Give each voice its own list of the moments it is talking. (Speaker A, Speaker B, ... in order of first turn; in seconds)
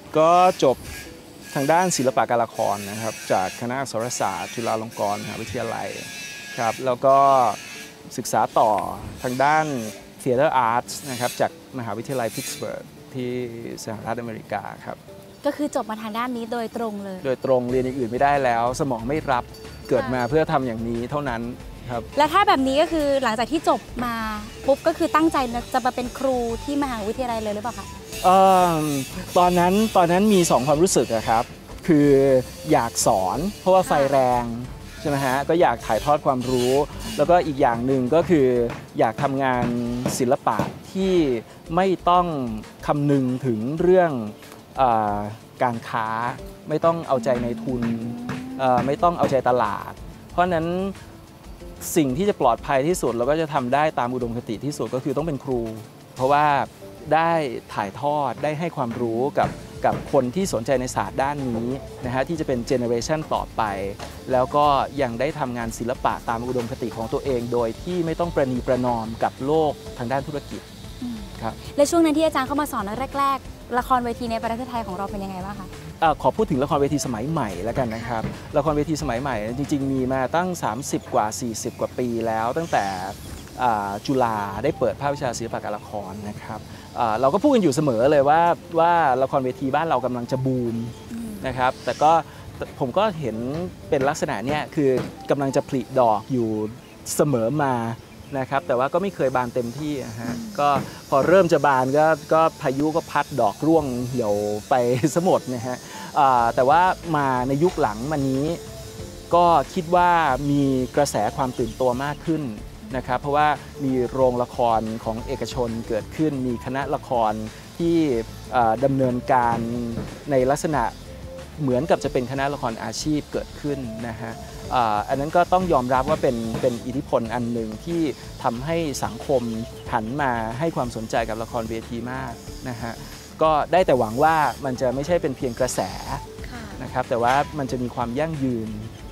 Speaker A: 0.1-0.8, 1.5-15.0, 17.2-22.1, 28.2-51.0, 51.8-70.6, 71.3-71.6, 76.0-108.6, 109.3-120.9, 121.6-136.2, 136.8-138.9
Speaker B: 15.4-17.2, 22.1-27.9, 71.0-75.7, 91.1-91.4, 100.2-100.5, 136.4-136.8